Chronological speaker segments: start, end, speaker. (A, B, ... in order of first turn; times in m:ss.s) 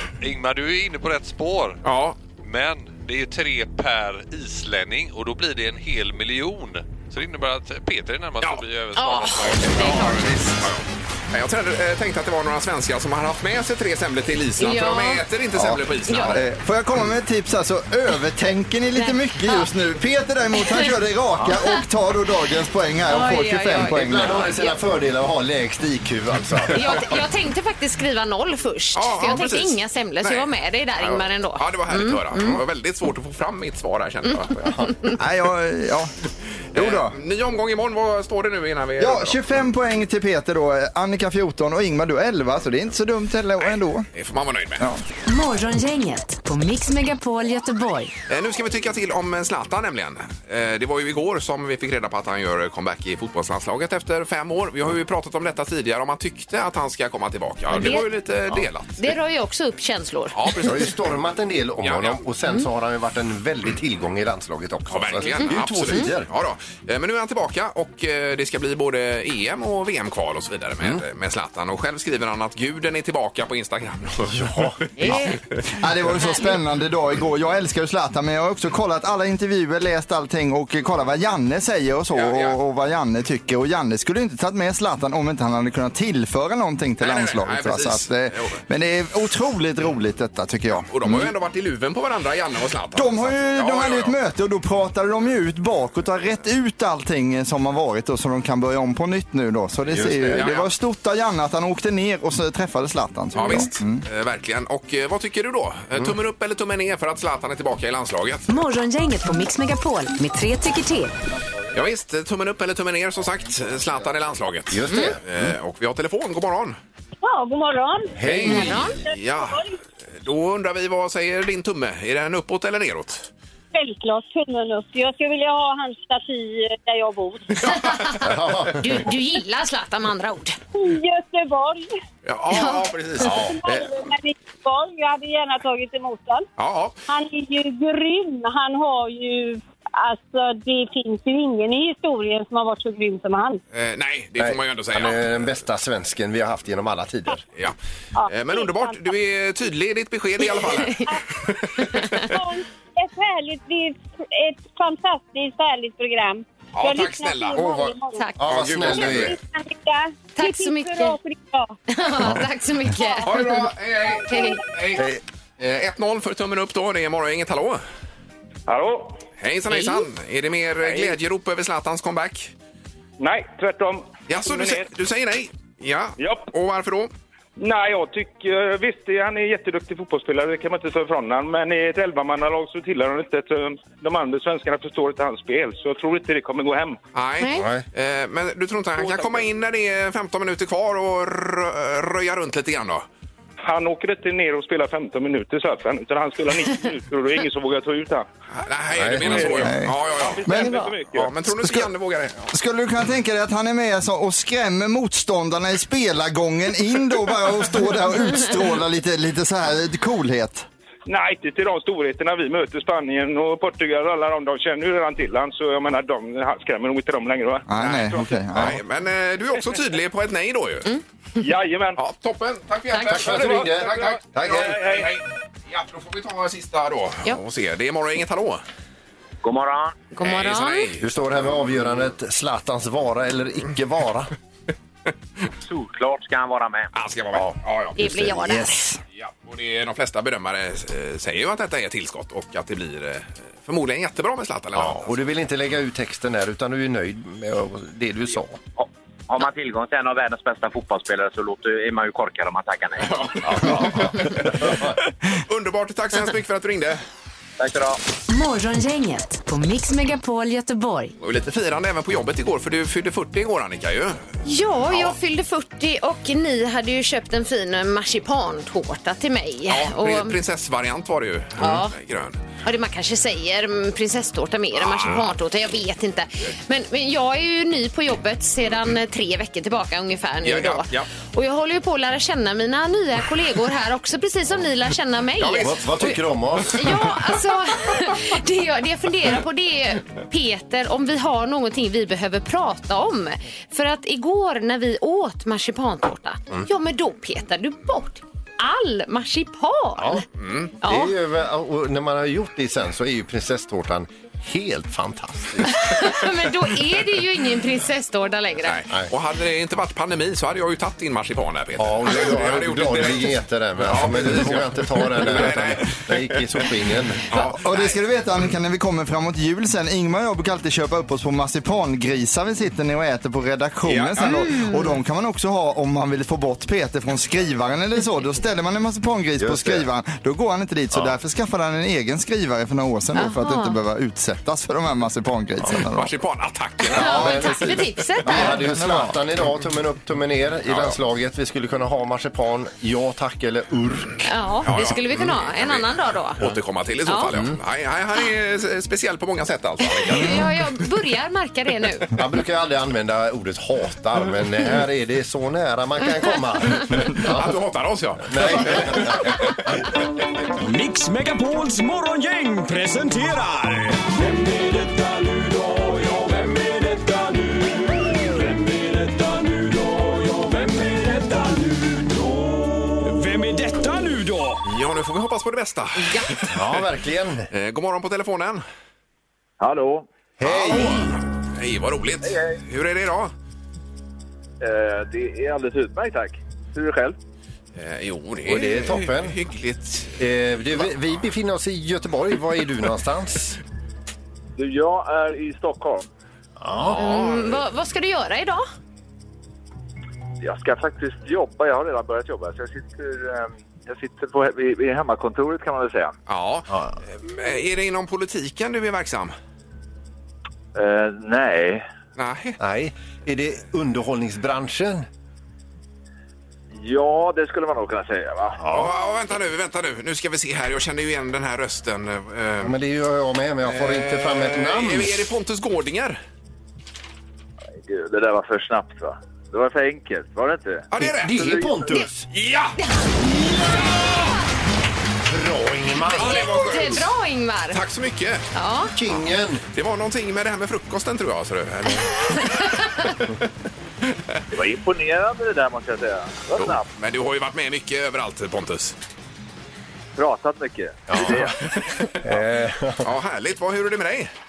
0:00.2-0:01.8 A
0:01.8-0:02.2 B
0:02.3-0:10.5 A
0:08.9-0:10.3 C
0:09.7-0:16.4 B
0:14.6-0:15.2 C
0:16.1-0:16.4 C
0:16.3-0:24.4 D
0:18.9-0:19.7 C
0:20.6-0:20.9 C
0:23.1-0:24.8 C
0:23.8-0:27.0 E
0:26.7-0:32.6 C
0:28.9-0:34.7 B
0:34.6-0:34.9 E
0:35.2-0:36.1 D
0:36.7-0:37.2 D
0:36.7-0:39.4 B
0:39.0-0:44.1 D
0:43.6-0:44.8 B
0:44.8-0:45.0 D
0:45.2-0:48.1 F
0:48.3-0:59.1 B
0:57.7-0:58.1 C
0:59.0-1:00.7 C
1:00.3-1:00.9 B
1:00.6-1:06.3 E
1:01.8-1:02.2 B
1:04.9-1:15.2 B
1:05.9-1:06.1 C
1:14.2-1:15.2 E
1:15.0-1:15.4 C
1:15.0-1:31.3 D
1:16.2-1:16.5 C
1:22.1-1:22.6 B
1:27.0-1:28.6 B
1:30.9-1:34.1 B
1:32.9-1:44.0 D
1:39.9-1:40.4 E
1:40.3-1:40.7 B
1:43.3-1:48.4 B
1:48.5-1:51.2 F
1:51.7-1:56.8 B
1:54.7-1:55.5 E
1:57.2-1:58.1 G
1:58.2-1:59.0 E
1:58.2-1:59.6 B
1:58.4-1:58.9 C
1:59.0-1:59.8 G
2:00.2-2:03.3 B
2:03.7-2:07.6 G
2:07.6-2:10.6 C
2:07.6-2:08.1 B
2:08.2-2:09.1 E
2:10.7-2:11.9 G
2:12.2-2:13.9 B
2:12.5-2:12.9 C
2:13.2-2:13.5 E
2:13.2-2:16.4 G
2:16.6-2:17.0 B
2:17.1-2:23.6 G
2:23.7-2:25.3 B
2:24.4-2:27.4 E
2:28.2-2:29.2 G
2:28.2-2:32.2 B
2:30.5-2:31.0 C
2:31.0-2:31.4 G
2:31.8-2:32.3 C
2:32.2-2:41.8 G
2:36.8-2:37.6 B
2:37.6-2:39.4 E
2:38.5-2:39.3 B
2:40.4-2:41.2 C
2:41.9-2:43.7 C
2:42.9-2:43.4 G
2:43.2-2:45.1 B
2:44.3-2:44.6 G
2:44.3-2:44.6 C
2:44.9-2:45.2 E
2:45.6-2:47.8 B
2:48.7-2:49.2 H
2:49.4-2:52.5 B
2:49.7-2:50.1 C
2:50.8-2:51.1 H
2:53.2-2:54.9 H
2:54.3-2:57.1 B
2:56.2-2:56.5 H
2:57.6-3:07.0 H
3:07.1-3:13.0 B
3:07.4-3:07.6 C
3:07.5-3:07.8 E
3:09.0-3:09.5 H
3:13.6-3:18.3 H
3:18.5-3:22.5 B
3:18.9-3:19.7 E
3:19.2-3:21.3 H
3:19.6-3:20.8 D
3:20.6-3:20.9 C
3:21.4-3:21.9 D
3:22.5-3:30.6 D
3:31.0-3:38.4 H
3:37.7-3:38.8 D
3:37.8-3:40.9 B
3:41.4-3:42.0 H
3:42.0-3:48.6 B
3:42.9-3:43.2 C
3:43.1-3:45.0 E
3:43.4-3:45.1 H
3:49.4-3:50.0 I
3:50.1-3:50.9 C
3:50.2-3:51.0 B
3:51.0-3:54.3 E
3:55.6-3:56.9 I
3:56.9-3:58.0 B
3:58.0-3:58.9 C
3:58.0-3:59.0 D
3:59.2-4:05.2 B
4:04.7-4:08.6 E
4:08.8-4:13.8 I
4:13.0-4:14.7 B
4:13.4-4:14.9 E
4:15.3-4:17.0 B
4:17.6-4:18.0 I
4:18.3-4:21.1 F
4:21.2-4:24.2 B
4:24.4-4:30.3 C
4:24.9-4:25.1 B
4:29.7-4:32.4 B
4:31.6-4:31.9 C
4:32.6-5:00.2 C
4:34.8-4:35.2 B
4:40.4-4:41.1 B
4:45.4-4:46.1 B
4:45.6-4:47.1 E
5:00.0-5:00.2 E
5:00.4-5:00.7 B
5:00.8-5:01.1 C
5:00.8-5:06.0 E
5:05.7-5:08.8 C
5:08.6-5:18.0 B
5:11.8-5:17.2 E
5:17.3-5:36.1 D
5:23.8-5:24.4 B
5:24.2-5:25.0 C
5:29.4-5:29.8 E
5:33.1-5:33.8 C
5:35.9-5:37.5 B
5:36.8-5:38.6 C
5:36.9-5:44.2 E
5:37.0-5:39.2 D
5:40.6-5:41.0 B
5:44.2-5:46.4 C
5:44.6-5:45.9 B
5:46.4-5:50.5 B
5:47.0-5:47.3 C
5:50.0-5:52.1 C
5:52.1-5:57.6 E
5:57.1-5:59.4 B
5:58.2-5:59.6 E
6:00.6-6:14.6 J
6:14.6-6:16.8 B
6:16.0-6:16.3 C
6:16.5-6:17.5 E
6:17.5-6:18.6 B
6:19.6-6:20.1 K
6:20.4-6:21.2 E
6:20.4-6:23.3 B
6:24.6-6:27.2 K
6:27.8-6:30.2 B
6:28.4-6:29.4 E
6:30.2-6:33.6 E
6:34.6-6:36.0 K
6:36.6-6:37.0 E
6:36.8-6:37.6 B
6:36.9-6:38.6 C
6:40.4-6:46.1 K
6:46.3-6:49.3 B
6:46.7-6:47.0 E
6:50.7-6:51.8 K
6:52.2-6:52.6 B
6:52.6-6:55.0 E
6:56.7-6:58.6 K
6:58.6-6:58.9 E
6:58.7-7:02.8 B
7:02.6-7:05.2 E
7:03.6-7:06.2 B
7:07.8-7:12.0 K
7:10.9-7:11.6 B
7:11.0-7:12.3 E
7:12.3-7:12.8 B
7:12.8-7:13.1 C
7:15.3-7:16.5 E
7:16.1-7:17.8 C
7:16.1-7:17.1 B
7:17.7-7:18.4 B
7:18.5-7:18.9 C
7:18.8-7:19.6 E
7:19.7-7:23.1 B
7:22.4-7:22.9 C
7:24.1-7:24.4 B
7:24.5-7:26.8 K
7:26.6-7:29.0 B
7:30.2-7:31.6 K
7:31.1-7:31.5 E
7:32.2-7:33.1 E
7:33.0-7:34.3 B